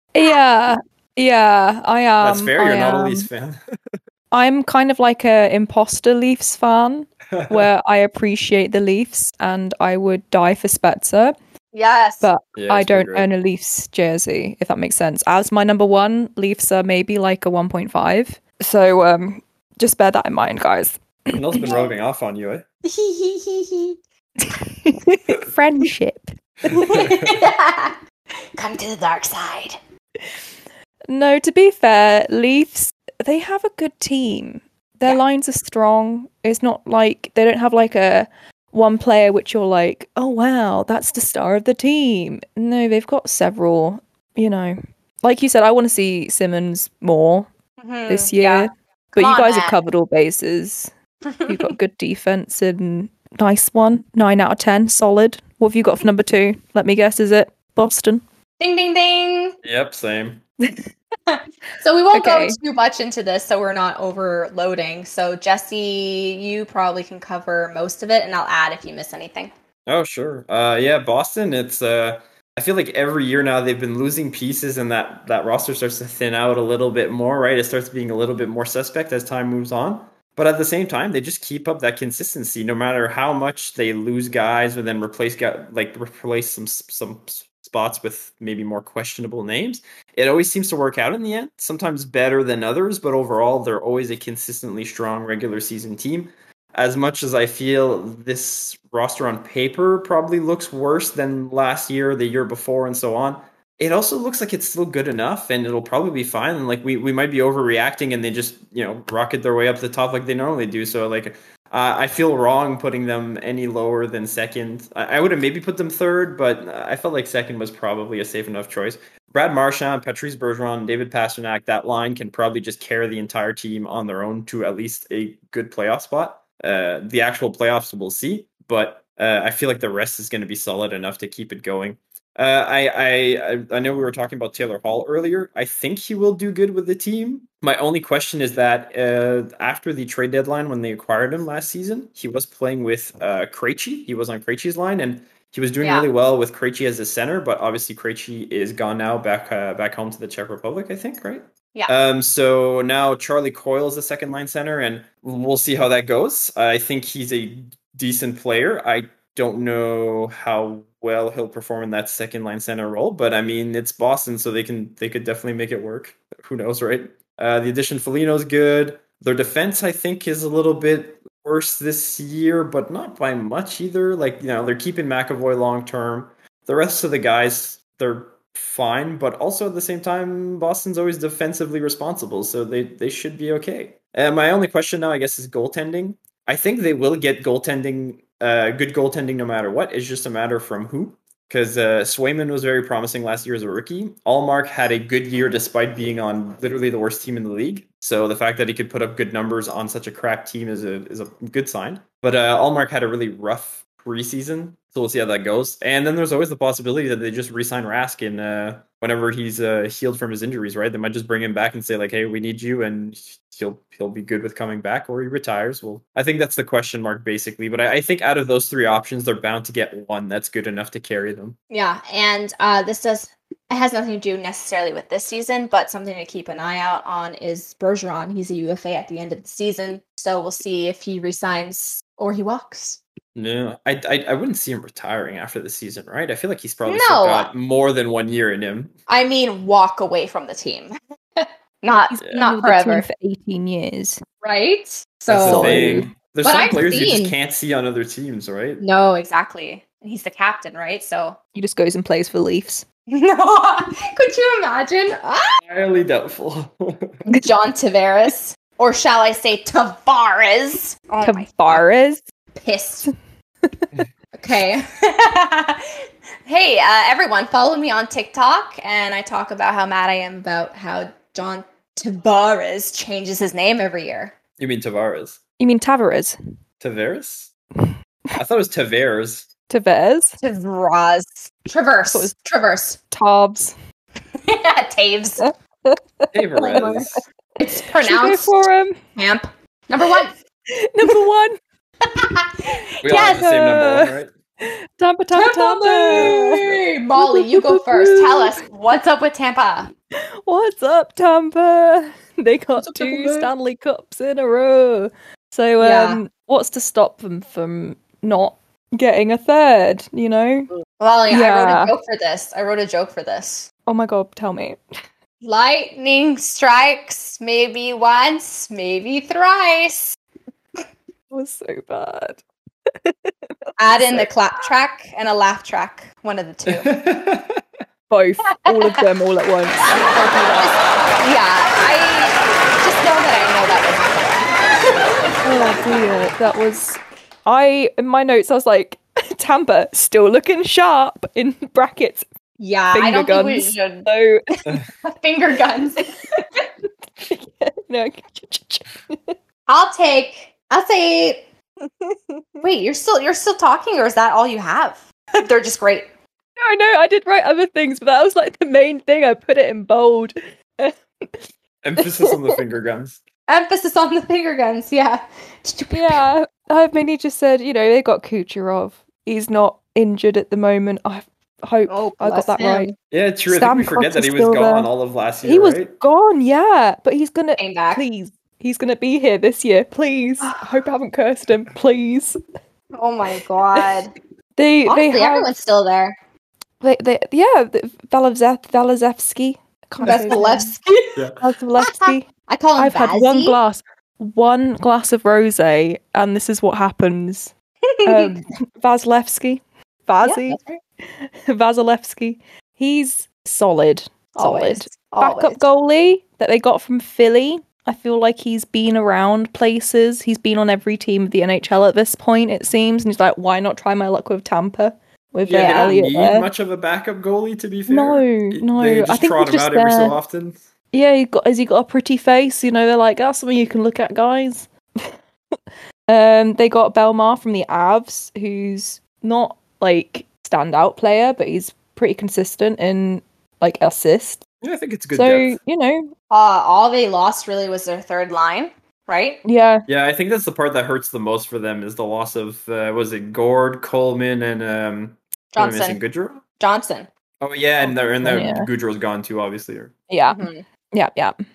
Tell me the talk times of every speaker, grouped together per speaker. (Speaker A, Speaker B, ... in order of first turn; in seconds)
Speaker A: 0.1-3.3, 4.3-11.3, 12.2-21.7, 24.5-27.1, 31.1-47.5, 48.1-50.9, 51.5-58.2, 62.1-62.6, 242.1-244.2, 245.4-246.1, 251.6-252.8, 261.2-262.2, 275.6-276.4, 279.7-280.4, 283.1-283.8, 285.4-286.6, 287.9-289.0, 290.7-291.6, 293.1-296.6, 297.2-298.6, 300.5-310.7, 311.3-311.9, 313.9-314.8, 321.3-322.4, 323.0-324.3, 328.1-330.7, 335.4-342.3, 342.9-344.8, 347.2-349.4, 356.6-361.4, 362.0-362.6, 365.9-372.9, 373.5-374.9, 375.4-382.4, 384.6-385.5, 386.8-390.7, 391.4-392.3, 392.8-397.5, 398.1-416.5, 417.9-420.2, 420.9-425.1, 426.1-434.4, 435.1-436.1, 439.4-439.9, 448.2-448.7, 450.1-451.4
Speaker B: 2.2-4.0, 7.3-7.7, 12.6-13.3, 21.3-22.6, 26.7-27.4, 59.6-60.4, 69.9-221.6, 233.3-238.9, 245.3-248.8, 255.6-257.1, 274.6-275.4, 276.8-277.5, 278.4-279.5, 286.3-287.1, 293.0-294.3, 296.1-296.8, 326.8-327.6, 361.8-363.2, 373.1-375.9, 390.0-390.4, 391.2-391.4, 415.4-420.6, 434.6-435.6, 439.9-446.4, 447.4-449.9
Speaker C: 11.7-12.3, 21.6-21.9, 22.8-24.0, 26.8-28.0, 28.6-29.8, 47.8-49.8, 51.3-51.7, 58.6-59.6, 61.3-69.5, 145.8-146.1, 221.7-233.0, 236.9-237.5, 239.1-243.1, 244.4-247.3, 248.8-251.4, 253.1-255.6, 257.3-261.9, 262.6-263.1, 264.3-265.9, 266.5-274.4, 280.4-283.0, 284.4-285.4, 286.6-288.6, 289.2-290.3, 292.0-293.5, 295.4-299.9, 302.8-303.5, 305.8-306.2, 310.8-313.7, 315.4-320.2, 323.8-326.9, 328.6-329.0, 329.8-336.1, 342.6-344.1, 345.0-346.5, 349.7-351.4, 352.6-356.1, 363.5-366.2, 371.9-372.9, 377.6-378.0, 382.9-384.1, 384.9-386.2, 390.0-391.2, 391.8-393.6, 397.9-398.4, 400.2-400.8, 404.4-405.6, 415.5-415.9, 436.3-439.4, 445.6-446.0, 446.6-447.1, 450.3-450.6